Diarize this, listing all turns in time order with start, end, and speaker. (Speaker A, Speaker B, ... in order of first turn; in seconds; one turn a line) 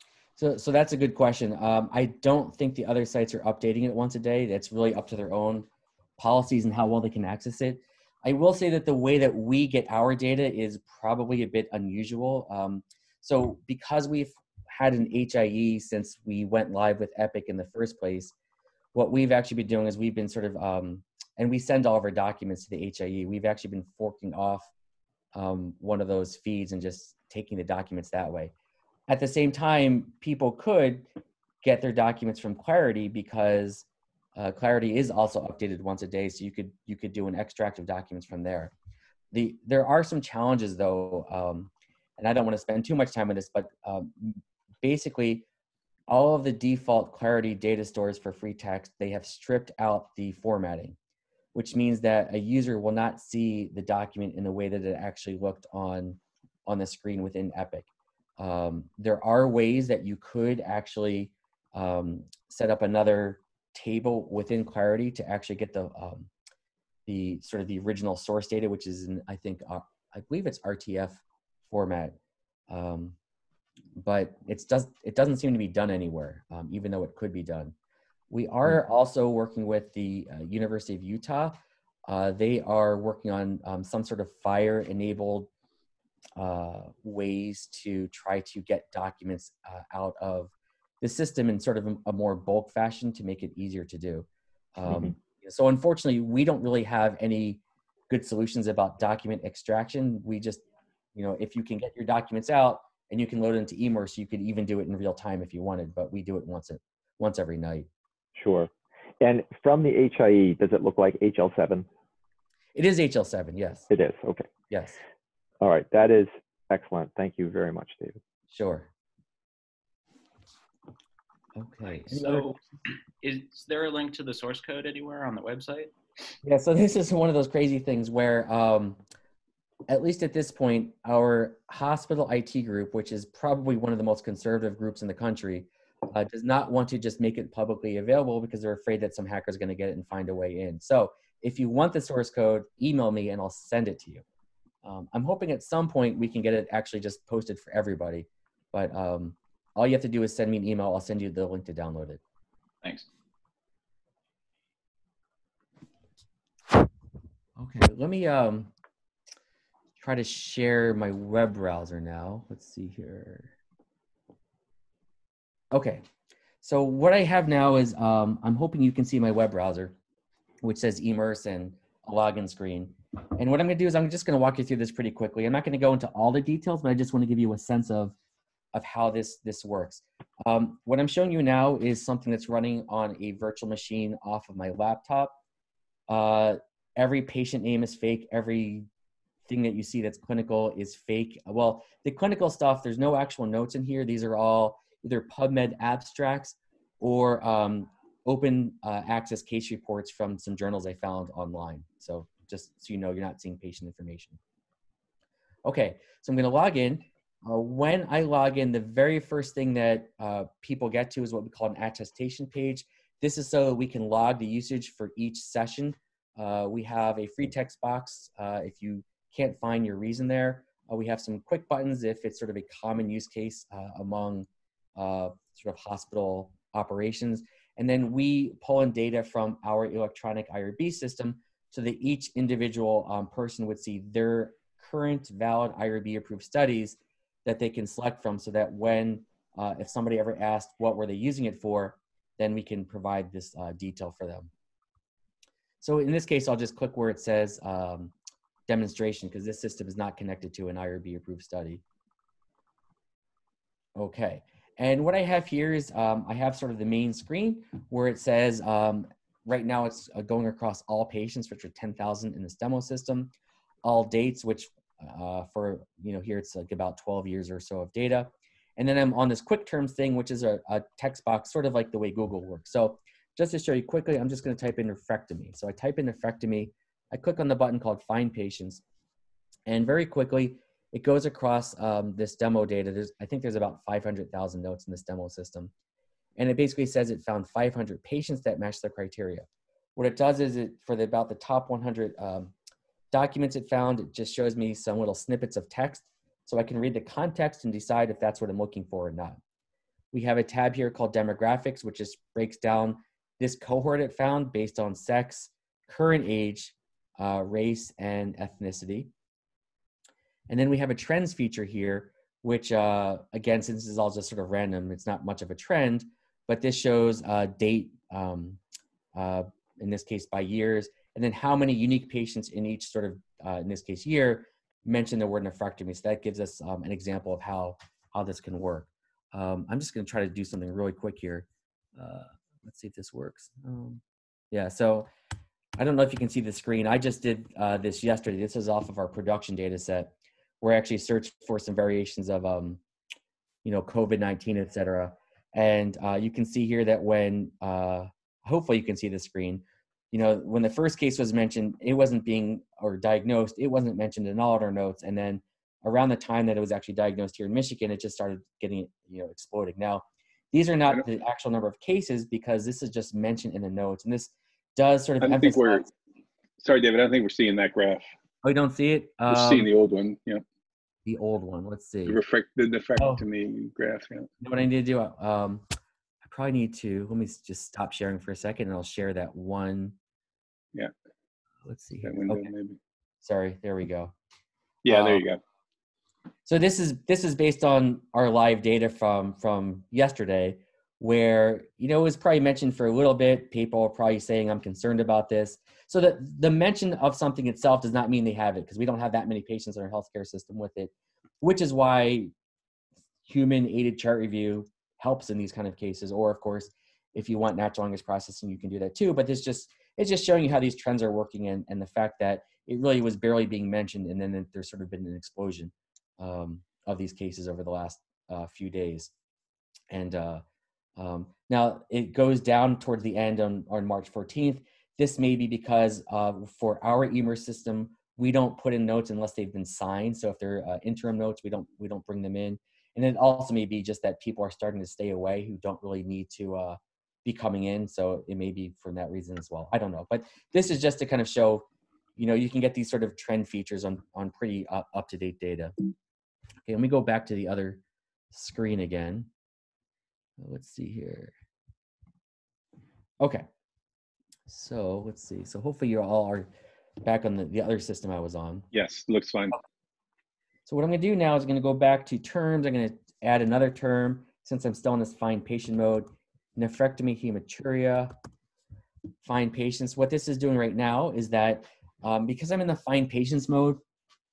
Speaker A: 0.4-5.7
Speaker A: 6.2-18.3
Speaker A: 18.9-24.7
Speaker A: 25.3-28.5
Speaker A: 29.1-31.1
Speaker A: 31.6-38.7
Speaker A: 39.3-45.5
Speaker A: 46.1-51.0
Speaker A: 51.5-57.9
Speaker A: 58.4-66.3
Speaker A: 67.0-72.2
Speaker A: 72.7-73.2
Speaker A: 74.0-77.7
Speaker A: 78.3-85.5
Speaker A: 86.3-100.6
Speaker A: 101.1-107.9
Speaker B: 108.3-111.9
Speaker A: 112.7-113.9
Speaker B: 113.9-114.5
Speaker A: 114.7-115.0
Speaker B: 115.6-118.2
Speaker A: 118.5-118.9
Speaker A: 121.5-122.6
Speaker C: 121.9-122.6
Speaker C: 123.2-125.9
Speaker A: 126.4-129.0
Speaker A: 129.9-144.2
Speaker A: 144.8-152.2
Speaker A: 157.6-158.7
Speaker A: 160.0-163.5
Speaker A: 165.7-166.0
Speaker A: 166.6-169.9
Speaker A: 170.6-178.2
Speaker A: 178.7-185.4
Speaker A: 186.1-188.9
Speaker A: 189.5-204.4
Speaker A: 205.6-244.5
Speaker A: 245.8-248.1
Speaker A: 248.7-251.8
Speaker A: 253.9-263.3
Speaker A: 263.8-278.8
Speaker A: 279.7-285.7
Speaker A: 286.4-292.5
Speaker A: 293.1-299.4
Speaker A: 300.1-309.1
Speaker A: 310.5-318.6
Speaker A: 319.1-335.1
Speaker A: 335.8-342.8
Speaker A: 343.6-365.9
Speaker D: 365.2-365.9
Speaker D: 366.6-368.1
Speaker A: 368.4-369.7
Speaker D: 369.3-370.4
Speaker A: 371.0-372.2
Speaker D: 372.1-374.3
Speaker A: 373.0-373.2
Speaker A: 374.4-375.6
Speaker A: 376.2-380.0
Speaker A: 381.6-382.5
Speaker D: 382.0-382.8
Speaker A: 383.2-384.1
Speaker A: 384.8-385.2
Speaker D: 384.8-385.4
Speaker A: 386.4-402.3
Speaker A: 403.3-419.1
Speaker A: 419.9-420.4
Speaker A: 420.9-445.7
Speaker A: 446.6-449.3
Speaker A: 450.4-451.3
Speaker A: 453.2-453.5
Speaker A: 454.5-456.5
Speaker A: 457.0-458.7
Speaker D: 458.7-459.6
Speaker A: 460.7-468.1
Speaker A: 469.2-473.8